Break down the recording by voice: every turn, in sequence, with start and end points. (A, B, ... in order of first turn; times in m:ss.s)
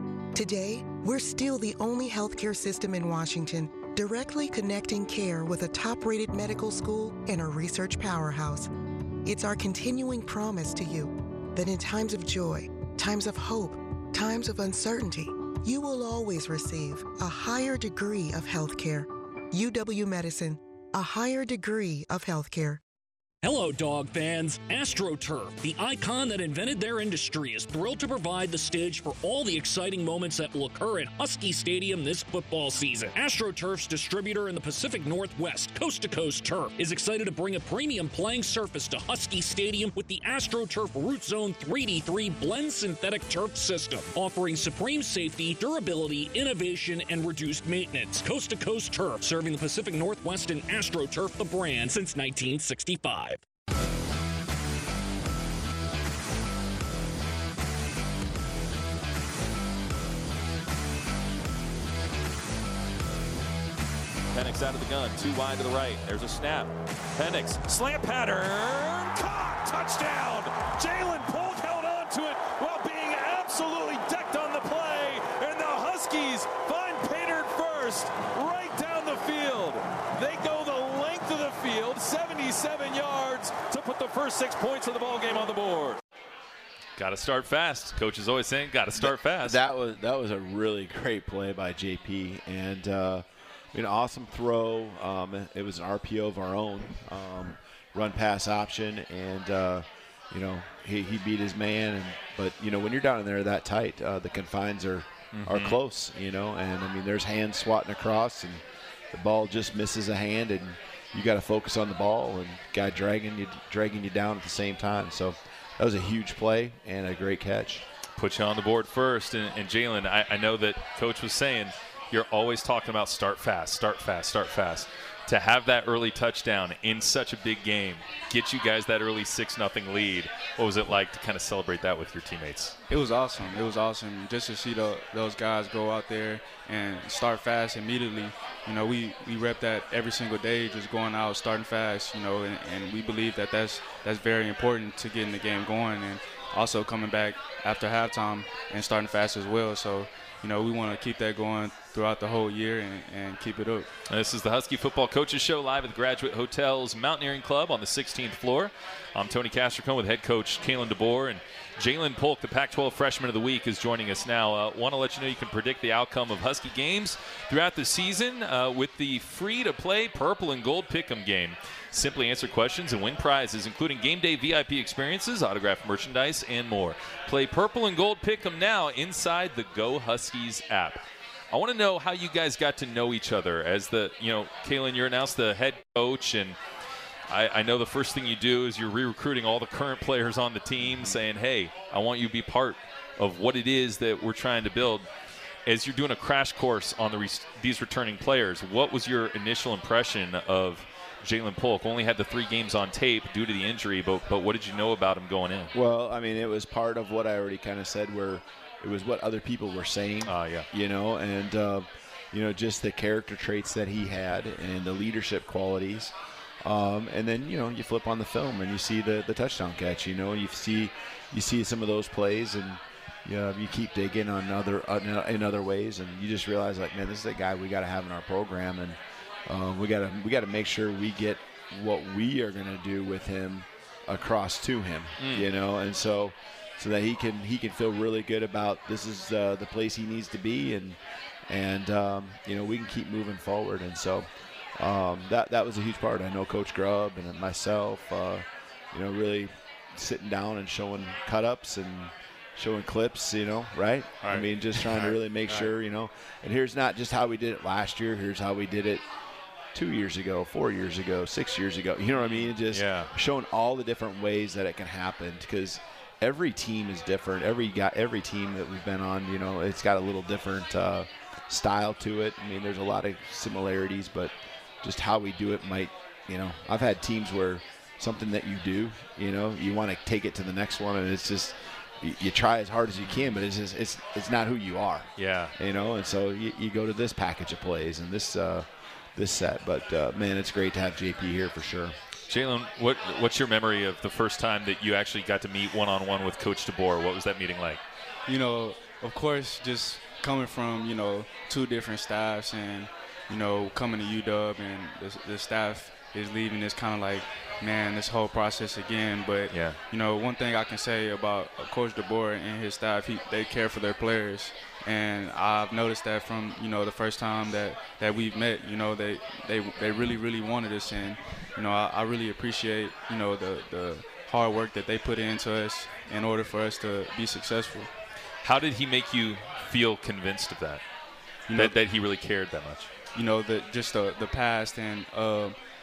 0:00.3-0:08.7 A
0:09.2-0:22.8 A
0:23.4-0:53.4 B
1:04.3-1:26.0 C
1:27.0-1:29.6 C
1:29.0-1:57.8 D
1:45.3-1:45.8 C
1:58.2-2:12.8 C
2:12.9-2:33.9 E
2:34.1-3:06.6 C
3:07.3-3:15.1 C
3:15.6-3:25.7 C
3:25.7-4:19.0 D
3:30.2-3:30.7 C
3:55.2-3:55.5 C
4:14.2-4:15.7 C
4:19.7-4:52.0 D
4:22.1-4:23.1 C
4:43.0-4:43.3 C
4:45.2-4:45.5 C
4:52.3-4:57.8 C
4:58.3-5:27.9 E
5:09.5-5:09.8 C
5:28.4-5:30.8 C
5:31.5-5:31.8 E
5:31.5-5:32.9 C
5:33.1-5:35.6 E